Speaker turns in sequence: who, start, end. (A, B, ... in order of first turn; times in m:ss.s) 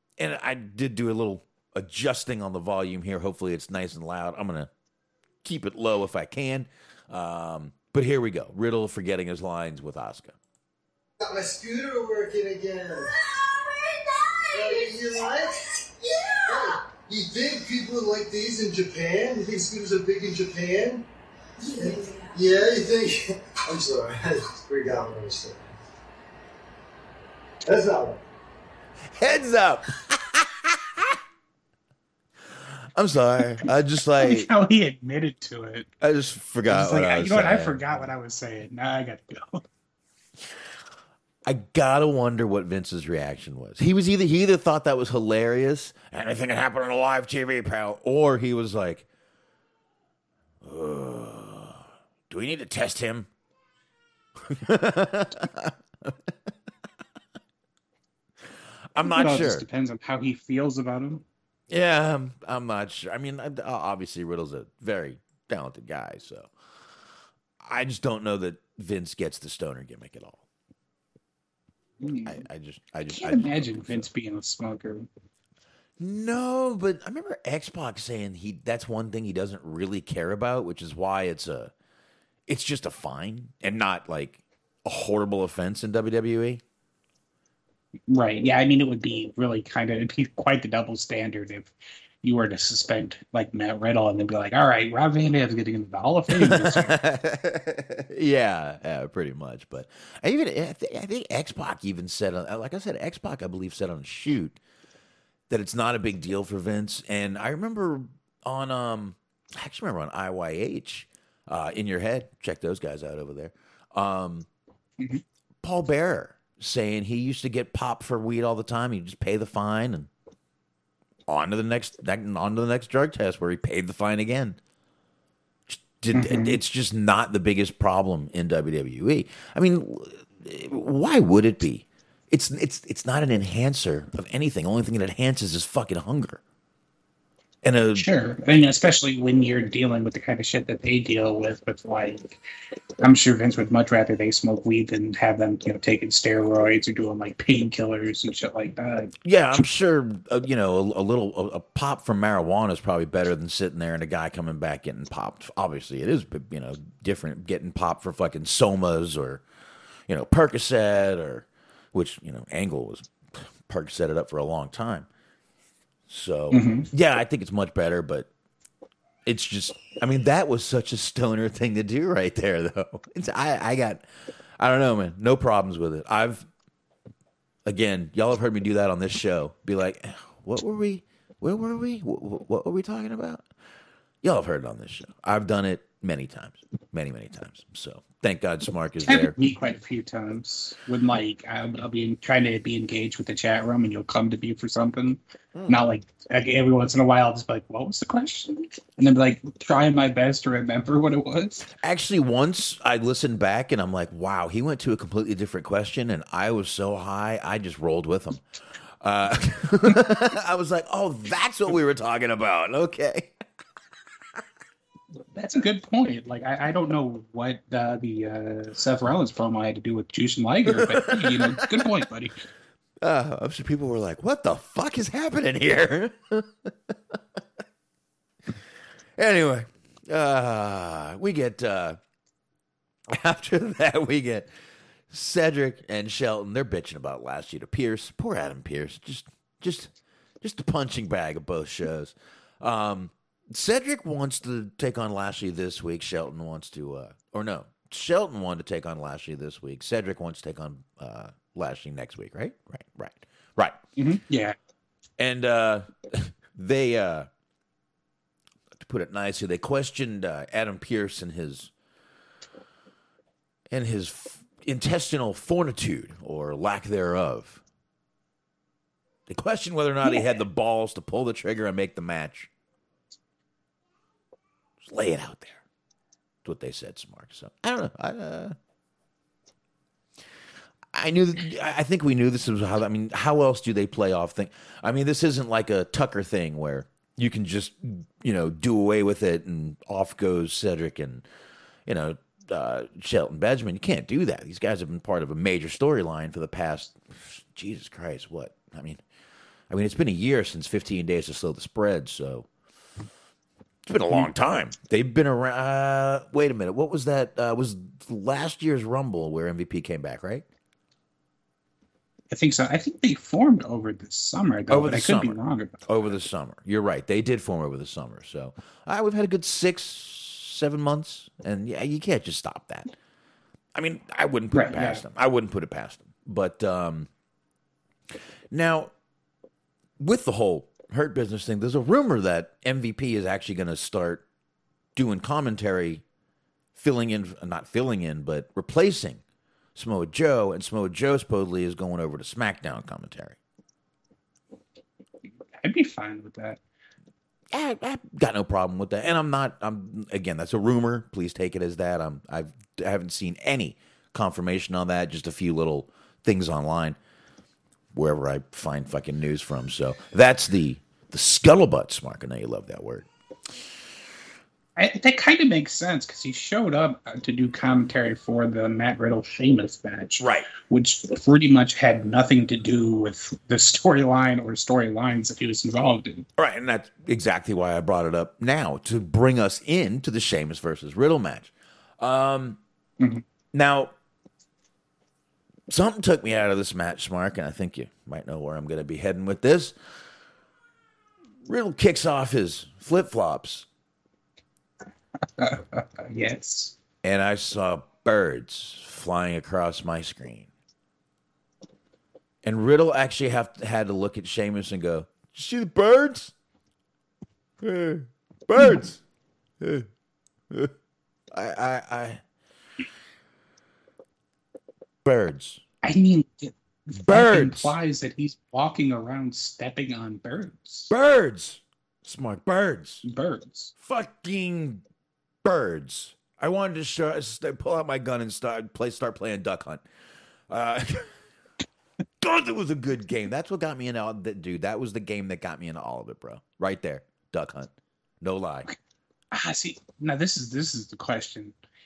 0:00.2-0:04.7 A
0:05.4-0:10.4 A
0:11.2-0:13.2 B
0:14.4-0:21.0 B
0:21.6-0:25.6 B
0:27.6-0:28.2 B
0:29.1-0:31.2 A
0:32.5-0:34.5 A
0:34.2-0:35.9 C
0:36.0-0:38.0 A
0:36.7-0:39.6 C
0:41.4-0:49.0 A
0:50.6-0:53.3 A
0:54.4-0:56.3 A
0:58.9-0:59.6 A
0:59.0-1:01.2 C
1:01.7-1:06.5 A
1:07.6-1:10.4 A
1:12.0-1:12.4 C
1:12.2-1:14.1 A
1:13.1-1:15.1 C
1:16.0-1:21.7 A
1:22.5-1:26.6 A
1:28.1-1:36.9 C
1:36.3-1:44.6 A
1:45.5-1:54.5 A
1:55.6-2:00.1 A
2:01.3-2:04.6 A
2:05.7-2:16.4 A
2:06.1-2:06.6 C
2:17.6-2:18.1 A
2:17.9-2:22.4 C
2:23.0-2:29.6 C
2:29.2-2:39.4 A
2:40.1-2:45.1 A
2:46.1-2:48.3 A
2:46.5-2:46.9 C
2:49.2-2:54.0 A
2:54.6-2:56.5 A
2:57.6-3:03.4 A
3:04.2-3:09.4 A
3:09.0-3:21.7 C
3:21.8-3:28.4 A
3:29.0-3:33.3 A
3:35.3-3:42.4 C
3:40.7-3:42.0 A
3:43.0-3:47.2 A
3:49.2-3:52.0 A
3:53.1-3:54.5 A
3:55.1-4:13.8 A
4:14.0-4:14.6 C
4:15.2-4:17.3 A
4:18.7-4:21.7 A
4:23.7-4:27.6 A
4:29.3-4:32.5 A
4:34.8-4:35.6 A
4:36.4-4:38.5 A
4:40.9-4:51.2 A
4:51.8-4:59.0 A
4:59.7-5:02.5 A
5:03.8-5:10.4 A
5:12.3-5:16.1 C
5:14.7-5:22.9 A
5:23.7-5:27.1 A
5:24.5-5:25.0 C
5:28.5-5:28.9 A
5:30.0-5:34.2 A
5:35.0-5:36.0 A
5:36.8-5:39.2 A
5:39.7-5:43.4 A
5:45.6-5:46.6 C
5:47.5-5:57.0 A
5:57.9-6:03.1 A
6:04.8-6:16.2 C
6:10.2-6:10.5 A
6:16.4-6:22.6 A
6:23.5-6:23.9 A
6:25.7-6:29.8 A
6:31.4-6:33.7 A
6:35.4-6:36.7 C
6:37.0-6:40.5 A
6:42.4-6:46.3 A
6:47.6-6:49.0 A
6:49.6-6:49.9 A
6:51.3-6:52.2 A
6:55.0-6:55.6 A
6:55.8-7:00.9 C
6:57.0-6:57.7 A
7:00.9-7:03.0 A
7:03.0-7:03.7 C
7:03.8-7:04.8 A
7:05.4-7:09.8 A
7:10.5-7:11.1 A
7:12.2-7:18.7 A
7:19.3-7:21.5 C